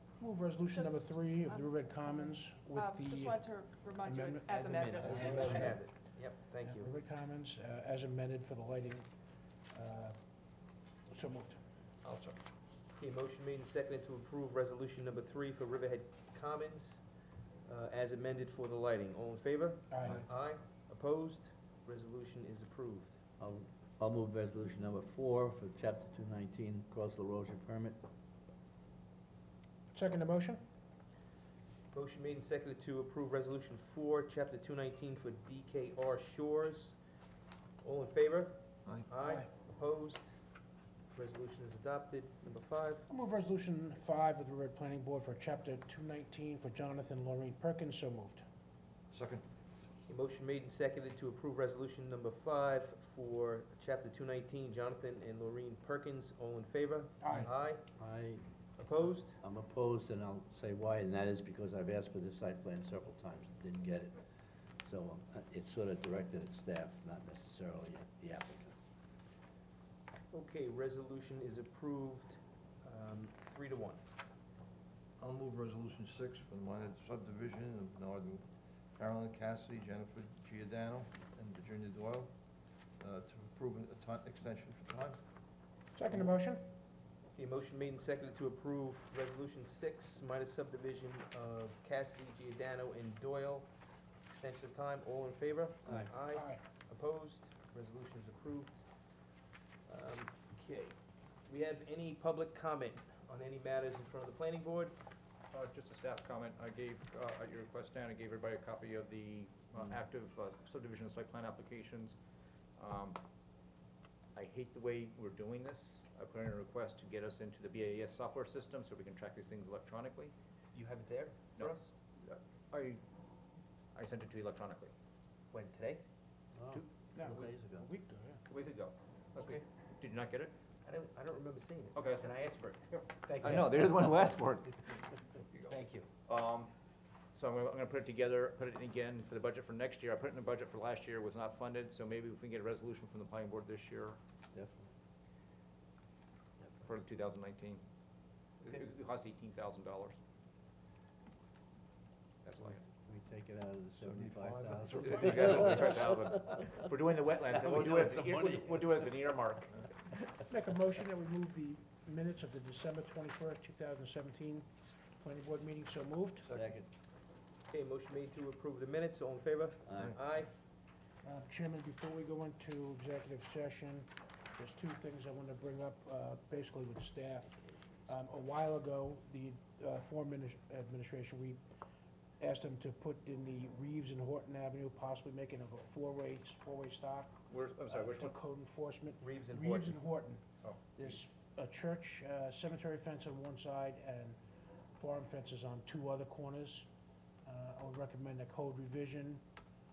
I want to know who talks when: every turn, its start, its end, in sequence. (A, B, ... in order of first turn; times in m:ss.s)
0:00.2-0:03.3 A
0:00.7-0:05.8 B
0:04.0-0:04.5 A
0:04.5-0:06.9 C
0:05.0-0:05.3 D
0:05.1-0:05.7 A
0:06.6-0:09.1 A
0:09.7-0:10.2 A
0:11.1-0:11.6 A
0:12.0-0:12.3 E
0:13.0-0:17.0 C
0:17.7-0:23.2 C
0:23.4-0:28.0 F
0:29.9-0:30.6 A
0:31.9-0:37.0 C
0:37.8-0:40.3 C
0:41.1-0:43.1 C
0:43.1-0:48.4 A
0:49.1-0:49.4 D
0:50.1-0:57.8 C
0:57.2-0:57.5 A
0:58.0-0:58.4 F
0:58.8-0:59.4 C
0:59.4-1:04.2 F
1:04.8-1:08.8 F
1:10.3-1:14.0 C
1:15.2-1:18.5 D
1:19.0-1:22.3 D
1:23.0-1:25.2 D
1:26.0-1:26.6 A
1:27.4-1:33.7 C
1:34.3-1:38.8 C
1:36.3-1:36.6 A
1:39.9-1:45.0 C
1:45.5-1:52.2 E
1:52.8-1:53.2 E
1:54.4-2:00.3 E
2:00.7-2:01.9 C
2:01.6-2:03.0 E
2:04.0-2:04.9 E
2:05.5-2:06.0 C
2:06.6-2:07.9 F
2:07.2-2:08.4 A
2:08.5-2:10.5 E
2:09.4-2:09.6 C
2:10.8-2:13.8 C
2:12.0-2:12.3 E
2:13.4-2:15.8 E
2:15.7-2:16.1 C
2:16.3-2:16.7 E
2:17.3-2:24.2 E
2:24.5-2:24.9 F
2:26.8-2:27.8 E
2:28.6-2:30.2 E
2:32.4-2:32.8 E
2:33.0-2:36.7 F
2:34.1-2:35.2 D
2:34.9-2:40.1 E
2:37.5-2:38.9 F
2:40.5-2:46.4 A
2:46.5-2:46.9 F
2:47.7-2:50.5 C
2:49.9-2:50.2 F
2:51.2-3:01.6 A
3:02.4-3:07.3 A
3:07.5-3:08.4 E
3:07.9-3:10.4 A
3:09.2-3:10.0 C
3:10.6-3:11.2 E
3:11.0-3:14.4 A
3:15.0-3:16.9 A
3:17.4-3:19.4 A